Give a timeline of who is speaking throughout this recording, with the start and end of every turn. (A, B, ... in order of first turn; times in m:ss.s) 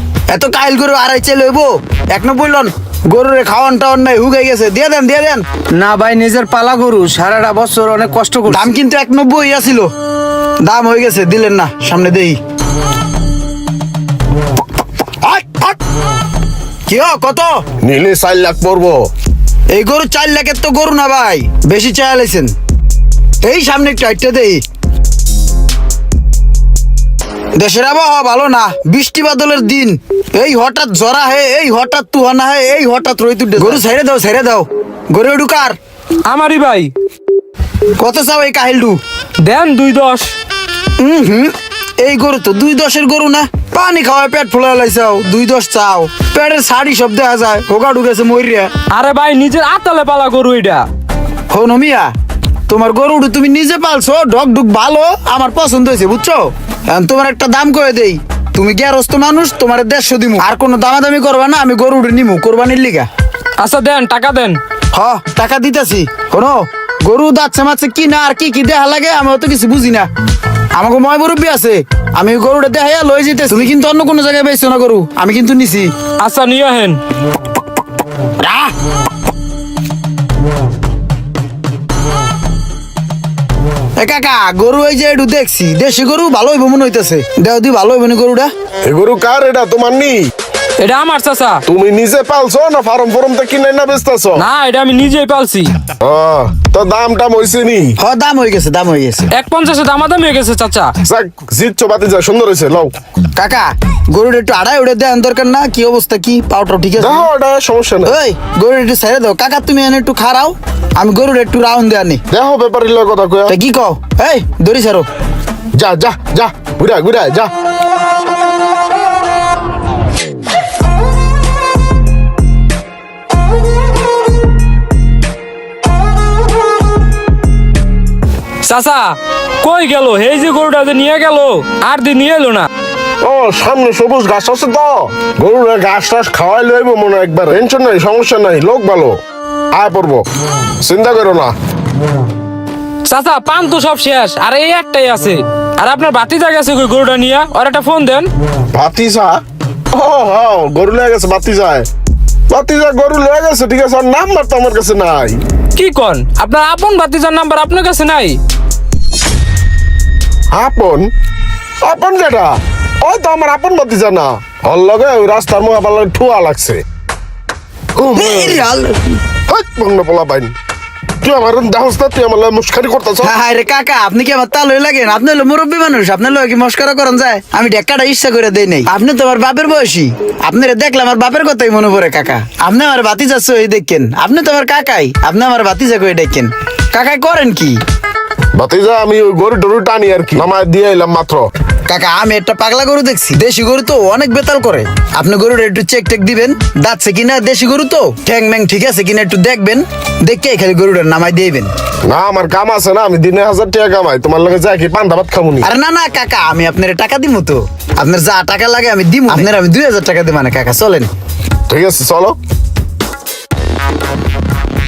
0:00.3-0:05.5 A
0:05.7-0:08.7 B
0:08.5-0:09.9 A
0:10.6-0:12.4 A
0:15.2-0:15.8 A
0:16.9-0:17.6 A
0:17.8-0:19.1 C
0:19.7-0:22.5 A
0:23.4-0:24.6 A
0:27.6-0:35.8 A
0:36.3-0:36.9 D
0:38.0-0:39.0 A
0:39.4-0:40.3 D
0:41.0-0:48.7 A
0:48.9-0:50.8 D
0:51.5-0:52.1 A
0:52.7-1:03.1 A
1:03.6-1:04.6 D
1:04.9-1:10.1 A
1:10.7-1:15.9 A
1:16.2-1:17.0 D
1:18.4-1:18.7 A
1:24.0-1:28.5 A
1:28.8-1:30.2 C
1:30.8-1:31.6 D
1:31.6-1:34.4 C
1:34.4-1:35.7 D
1:36.0-1:38.0 C
1:38.0-1:39.3 A
1:39.3-1:40.9 D
1:41.0-1:42.9 C
1:43.4-1:47.3 A
1:47.0-1:48.1 C
1:48.1-1:52.2 A
1:52.3-1:53.6 C
1:53.5-1:55.1 A
1:55.8-1:57.5 C
2:08.6-2:12.7 D
2:13.2-2:19.2 C
2:19.7-2:20.3 C
2:20.8-2:21.5 C
2:23.1-2:28.3 D
2:28.7-2:29.4 C
2:29.9-2:31.9 C
2:32.5-2:35.4 C
2:35.8-2:38.4 D
2:40.5-2:41.1 C
2:41.8-2:46.8 C
2:48.0-2:49.0 A
2:48.1-2:48.6 C
2:49.5-2:50.5 C
2:51.2-2:53.3 C
2:53.2-3:07.8 A
3:08.6-3:11.5 C
3:11.9-3:21.7 A
3:22.1-3:25.7 C
3:25.6-3:31.1 A
3:31.7-3:32.4 C